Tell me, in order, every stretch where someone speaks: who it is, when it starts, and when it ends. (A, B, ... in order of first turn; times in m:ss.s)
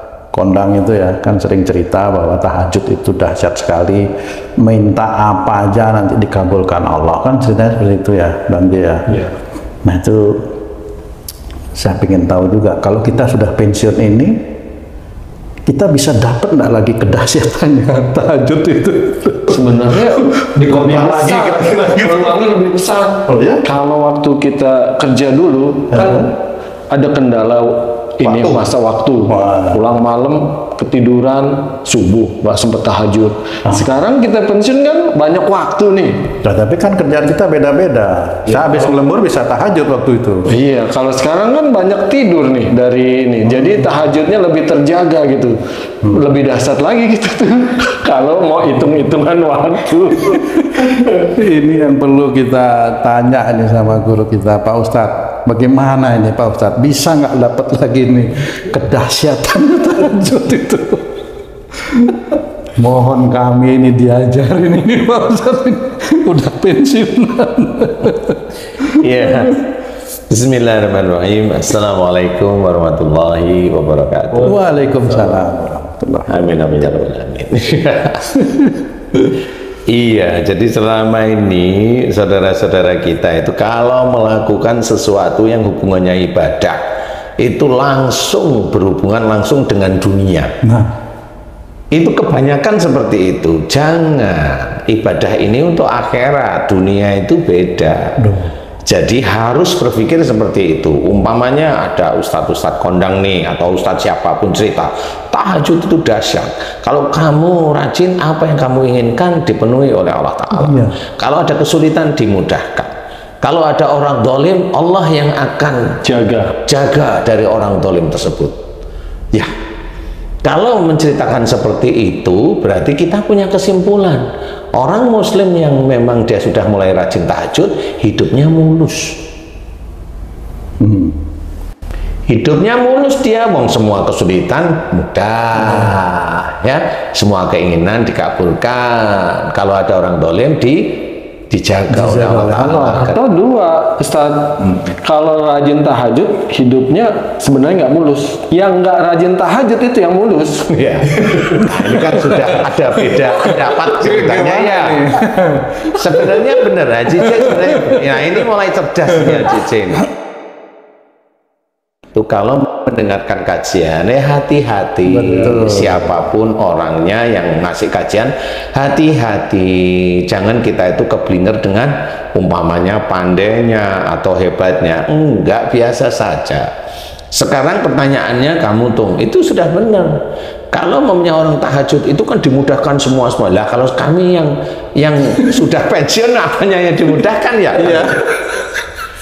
0:00.3-0:09.2 A
0:09.8-0:10.6 A
0:11.7-0:14.4 A
0:15.6-0:19.6 A
0:19.5-0:26.3 B
0:20.5-0:21.9 A
0:23.3-0:23.6 A
0:25.9-0:26.2 A
0:26.9-0:36.3 B
0:28.2-0:28.6 A
0:29.3-0:29.8 A
0:36.4-0:40.5 A
0:38.5-0:38.8 B
0:40.5-0:51.1 B
0:50.7-1:01.0 A
1:02.8-1:08.9 A
1:08.9-1:09.6 C
1:10.3-1:14.6 C
1:14.4-1:16.3 A
1:16.3-1:18.6 C
1:19.9-1:26.8 C
1:27.4-1:30.5 C
1:30.6-1:30.9 A
1:31.9-1:38.2 C
1:38.2-1:38.5 A
1:38.8-1:56.0 C
1:50.5-1:51.0 A
1:56.0-1:56.6 B
1:56.6-1:58.6 C
2:00.4-2:09.2 C
2:10.8-2:11.2 A
2:12.3-2:23.2 C
2:21.9-2:23.1 A
2:22.9-2:30.7 B
2:30.7-2:35.0 C
2:33.8-2:36.5 A
2:35.9-2:40.1 C
2:37.2-2:38.0 A
2:42.1-2:56.7 C
2:45.1-2:46.1 A
2:57.3-3:00.2 C
3:00.7-3:08.2 C
3:07.8-3:08.7 A